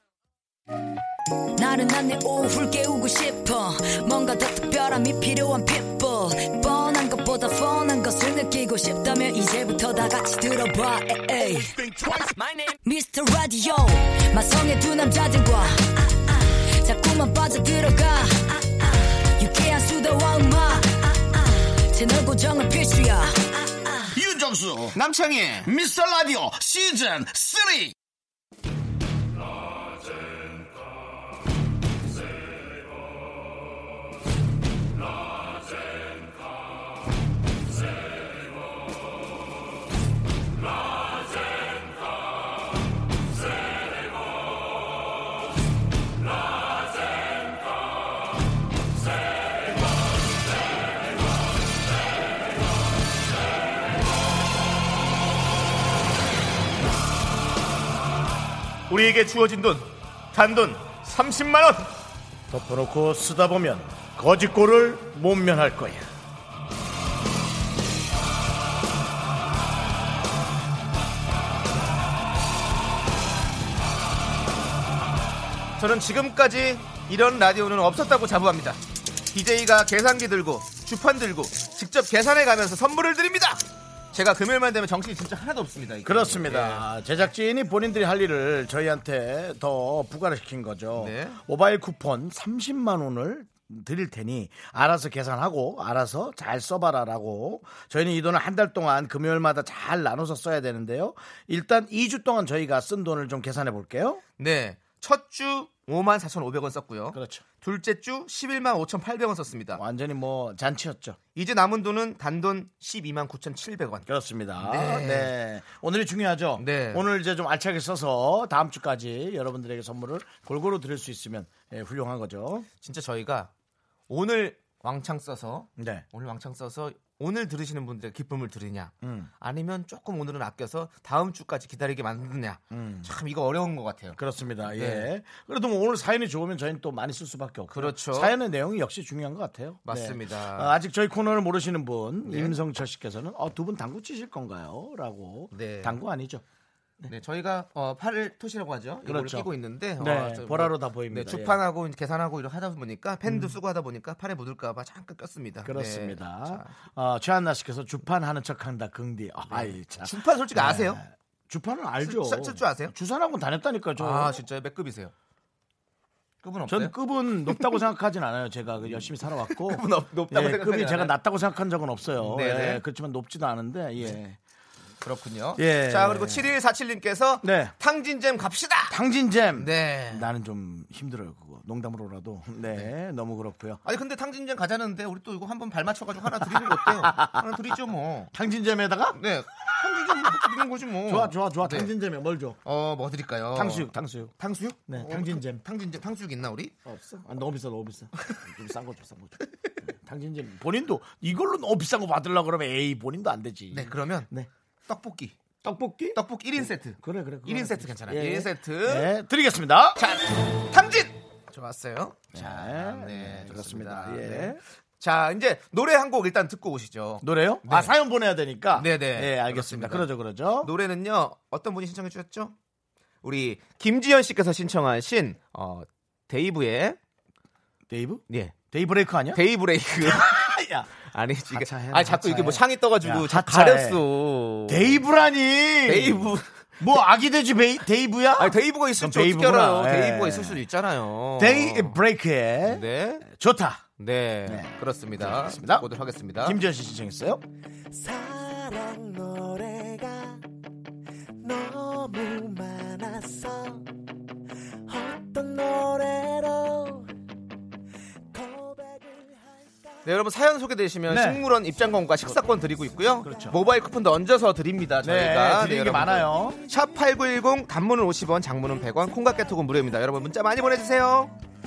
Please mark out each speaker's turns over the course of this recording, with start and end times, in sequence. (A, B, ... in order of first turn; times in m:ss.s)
0:01.6-0:24.2 A
0:24.1-0:25.0 B
0:24.9-0:25.7 C
0:25.6-0:27.9 B
0:58.9-1:01.9 C
1:02.5-1:06.1 B
1:15.8-1:26.8 C
1:26.0-1:44.2 B
1:31.0-1:31.4 C
1:44.4-1:49.8 C
1:47.1-1:47.4 B
1:49.7-1:51.2 B
1:51.3-1:54.1 C
1:54.1-2:02.7 B
1:54.6-1:55.3 C
1:56.6-1:57.0 C
2:02.8-2:03.5 C
2:04.1-2:15.1 C
2:05.8-2:06.0 B
2:09.0-2:09.3 B
2:12.7-2:13.1 B
2:14.2-2:26.4 B
2:17.7-2:18.4 C
2:19.8-2:20.7 C
2:22.2-2:22.6 C
2:25.5-2:26.0 C
2:27.1-2:36.8 C
2:29.0-2:31.6 B
2:33.3-2:33.5 B
2:35.6-2:44.4 B
2:39.5-2:41.0 C
2:42.0-2:42.9 C
2:44.0-2:45.1 C
2:46.4-2:46.9 C
2:46.7-2:54.4 B
2:47.5-2:47.8 C
2:49.2-2:51.1 C
2:52.2-2:52.8 C
2:55.0-2:59.0 C
2:55.6-2:56.5 B
2:57.4-2:57.7 B
2:58.9-3:03.8 B
2:59.5-3:00.3 C
3:03.8-3:08.3 C
3:06.4-3:07.4 B
3:08.3-3:10.5 B
3:09.1-3:11.9 C
3:11.0-3:12.6 B
3:12.6-3:16.7 C
3:13.5-3:14.3 B
3:14.9-3:15.6 B
3:16.8-3:24.5 B
3:23.7-3:24.3 C
3:24.8-3:25.4 C
3:25.6-3:30.0 B
3:26.1-3:29.1 C
3:30.0-3:37.9 C
3:32.3-3:34.6 B
3:37.2-3:40.7 B
3:38.7-3:42.5 C
3:43.2-3:47.0 C
3:47.9-3:49.4 B
3:48.3-3:48.6 C
3:49.3-3:50.4 C
3:50.0-3:50.9 B
3:51.0-3:55.0 C
3:51.5-3:54.0 B
3:54.7-4:00.6 B
3:55.8-3:56.5 C
3:58.4-4:02.0 C
4:01.4-4:03.8 B
4:02.6-4:03.2 C
4:04.0-4:06.6 C
4:04.4-4:07.4 B
4:07.9-4:10.4 D
4:11.4-4:13.9 D
4:14.9-4:17.1 D
4:18.3-4:19.4 D
4:20.0-4:31.3 C
4:21.1-4:21.4 B
4:23.2-4:23.6 B
4:25.0-4:26.6 B